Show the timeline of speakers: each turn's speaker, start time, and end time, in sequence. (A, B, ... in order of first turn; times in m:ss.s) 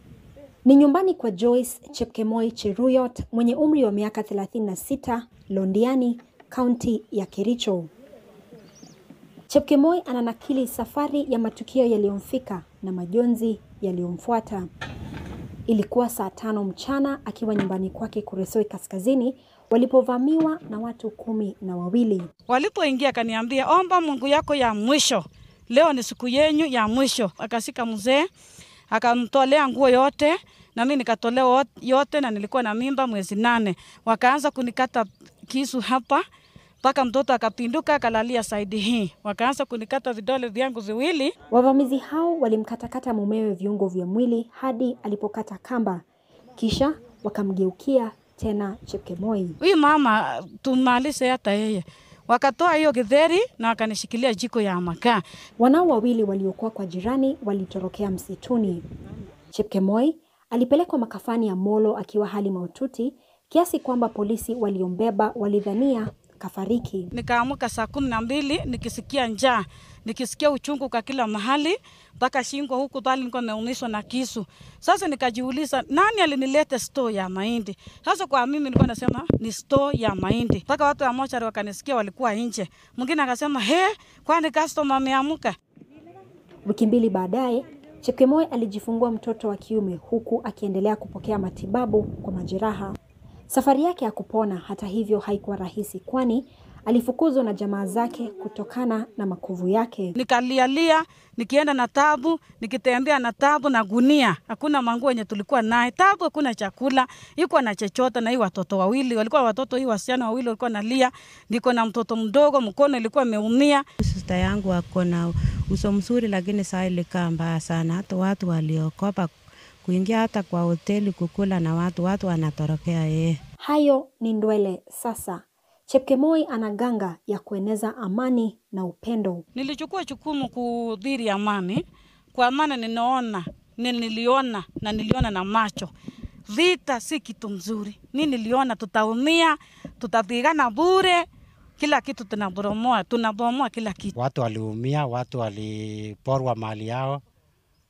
0:00.6-0:07.9 A
0:09.5-0:14.7 A
0:15.7-0:22.3 A
0:22.5-0:28.3 B
0:28.9-0:36.2 B
0:36.8-0:41.3 B
0:41.5-0:46.0 A
0:46.6-0:49.6 A
0:49.6-0:55.2 B
0:55.6-0:58.8 A
0:59.5-1:07.1 A
1:07.1-1:25.5 B
1:26.6-1:33.0 A
1:33.5-1:40.1 A
1:40.2-1:53.8 B
1:54.0-2:03.4 C
2:03.6-2:09.4 A
2:09.5-2:11.8 B
2:12.3-2:15.9 B
2:16.5-2:21.2 B
2:21.8-2:24.1 B
2:24.1-2:27.2 D